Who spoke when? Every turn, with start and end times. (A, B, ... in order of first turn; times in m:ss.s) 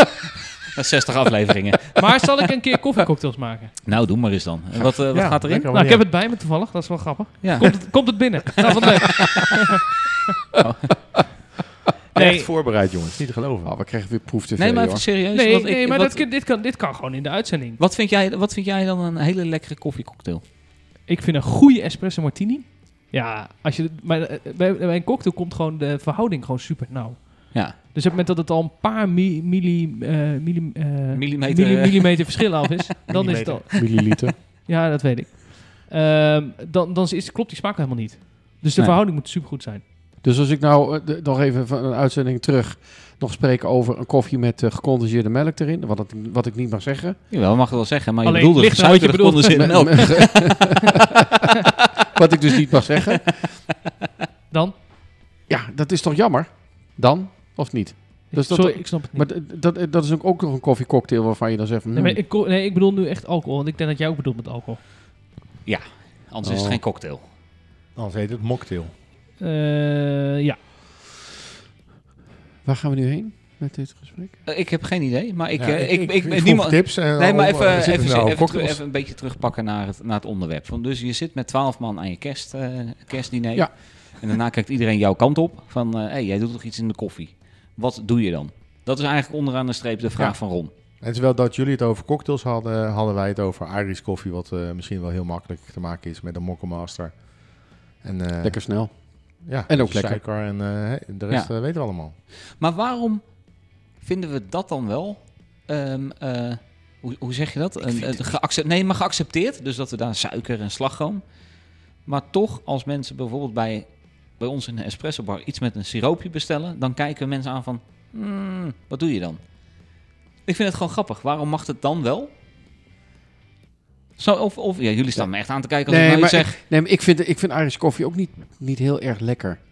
0:00.8-0:02.5 A
0:02.0-0:03.8 B
0:03.8-0:05.8 A
0:04.7-0:06.1 C
0:05.7-0:09.8 B
0:07.4-0:09.1 A
0:10.6-0:11.2 A
0:12.1-0:12.5 B
0:12.1-0:13.7 C
0:13.6-0:15.1 D
0:14.6-0:16.3 A
0:15.3-0:17.8 B
0:17.8-0:20.4 A
0:21.0-0:39.8 B
0:31.1-0:32.9 A
0:33.1-0:33.8 C
0:33.7-0:34.4 D
0:38.7-0:39.0 A
0:40.2-0:47.2 D
0:47.3-0:50.9 A
0:48.2-0:50.5 B
0:49.5-0:50.8 D
0:52.1-0:53.6 D
0:55.5-1:02.2 D
0:58.3-0:59.3 B
1:01.9-1:04.8 B
1:05.6-1:07.2 A
1:06.4-1:06.8 D
1:07.9-1:08.9 C
1:09.4-1:10.6 B
1:12.6-1:14.4 D
1:14.4-1:30.7 A
1:15.6-1:18.8 C
1:31.0-1:42.2 C
1:38.4-1:40.2 D
1:41.3-1:51.4 A
1:52.0-1:59.7 A
2:00.4-2:02.3 A
2:04.2-2:06.6 A
2:05.1-2:09.6 D